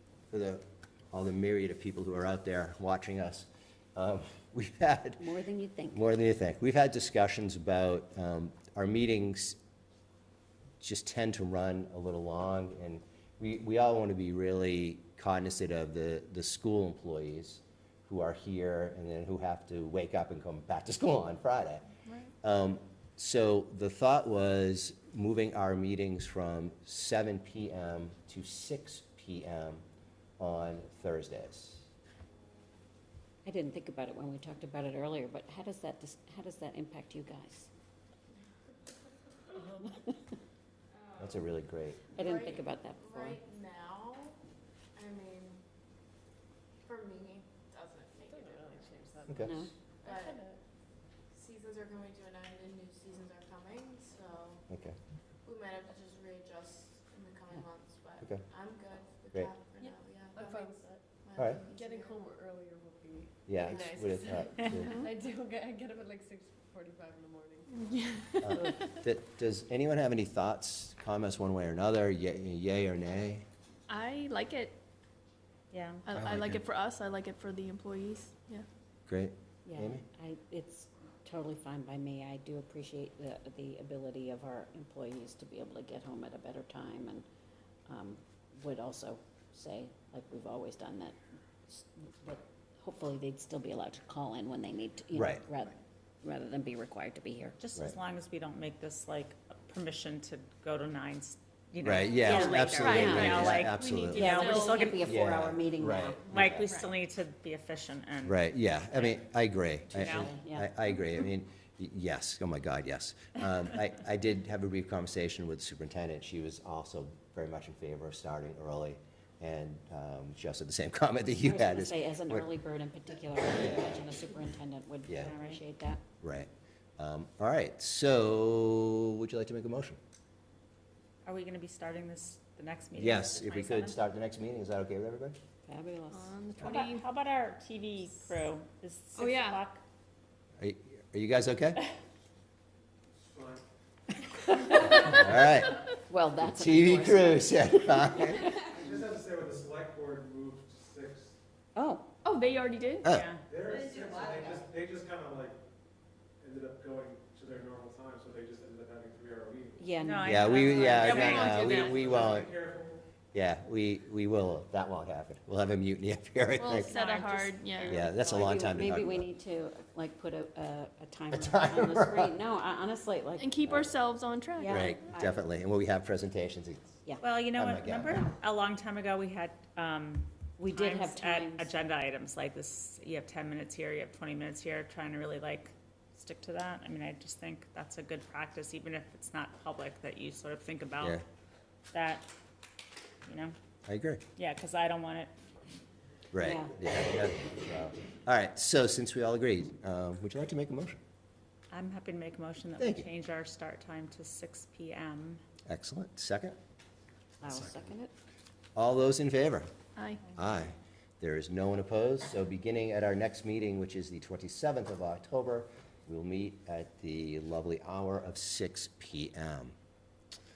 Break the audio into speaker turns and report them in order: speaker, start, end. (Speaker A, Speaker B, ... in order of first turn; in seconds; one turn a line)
Speaker A: 0.3-5.2
Speaker B: 5.2-6.0
Speaker A: 5.9-9.6
Speaker A: 10.8-21.8
Speaker C: 22.1-22.3
Speaker A: 22.4-29.8
Speaker A: 30.4-31.9
Speaker B: 33.4-37.7
Speaker B: 39.7-40.2
Speaker A: 41.2-42.1
Speaker B: 42.1-43.4
Speaker D: 42.1-44.4
Speaker D: 44.9-45.6
Speaker D: 46.8-49.5
Speaker E: 48.3-49.5
Speaker A: 49.3-49.6
Speaker B: 49.4-49.7
Speaker D: 50.0-50.4
Speaker E: 50.0-50.6
Speaker D: 51.3-54.7
Speaker A: 54.7-55.0
Speaker D: 55.4-62.2
Speaker E: 59.8-61.0
Speaker A: 61.4-61.6
Speaker E: 61.7-68.0
Speaker A: 63.5-65.0
Speaker D: 63.6-64.1
Speaker B: 64.8-65.1
Speaker C: 67.7-68.8
Speaker A: 68.4-73.4
Speaker C: 73.9-74.8
Speaker F: 75.7-76.0
Speaker C: 76.0-78.7
Speaker A: 76.2-76.5
Speaker A: 79.1-80.0
Speaker B: 79.7-87.2
Speaker B: 87.9-91.2
Speaker B: 91.7-97.6
Speaker A: 95.1-95.4
Speaker F: 97.6-105.0
Speaker A: 101.8-106.7
Speaker B: 102.2-106.2
Speaker C: 102.8-105.0
Speaker F: 106.3-109.2
Speaker A: 108.2-122.5
Speaker F: 109.9-110.4
Speaker B: 109.9-110.7
Speaker B: 121.4-126.0
Speaker A: 123.5-124.0
Speaker A: 125.1-125.3
Speaker F: 125.2-125.6
Speaker A: 126.2-130.0
Speaker F: 131.2-134.0
Speaker A: 132.9-135.4
Speaker B: 135.7-136.3
Speaker C: 136.1-137.1
Speaker F: 136.6-139.8
Speaker D: 139.2-139.6
Speaker A: 140.6-141.8
Speaker G: 143.2-143.6
Speaker A: 144.9-145.8
Speaker B: 146.1-148.5
Speaker A: 146.5-148.4
Speaker G: 148.7-151.3
Speaker B: 151.7-152.1
Speaker C: 152.2-153.1
Speaker A: 153.0-153.3
Speaker F: 153.0-153.4
Speaker G: 153.5-155.6
Speaker G: 156.4-159.8
Speaker B: 159.8-161.1
Speaker F: 160.0-161.9
Speaker A: 160.2-162.5
Speaker C: 160.8-161.9
Speaker G: 161.6-163.0
Speaker A: 163.3-166.9
Speaker C: 166.6-168.0
Speaker F: 166.7-168.5
Speaker A: 167.8-169.2
Speaker B: 167.9-173.6
Speaker A: 171.3-172.3
Speaker C: 173.4-174.9
Speaker A: 173.7-173.9
Speaker B: 174.6-175.3
Speaker A: 174.7-176.8
Speaker F: 177.2-191.2
Speaker A: 177.5-178.2
Speaker B: 180.6-181.7
Speaker F: 191.9-192.2
Speaker F: 193.2-193.5
Speaker A: 193.9-194.2
Speaker F: 194.4-195.3
Speaker A: 196.3-201.0
Speaker B: 196.4-196.7
Speaker F: 201.7-205.4
Speaker A: 202.8-203.1
Speaker A: 205.7-206.6
Speaker B: 207.4-208.1
Speaker A: 208.8-209.7
Speaker C: 209.9-210.2
Speaker A: 210.3-219.7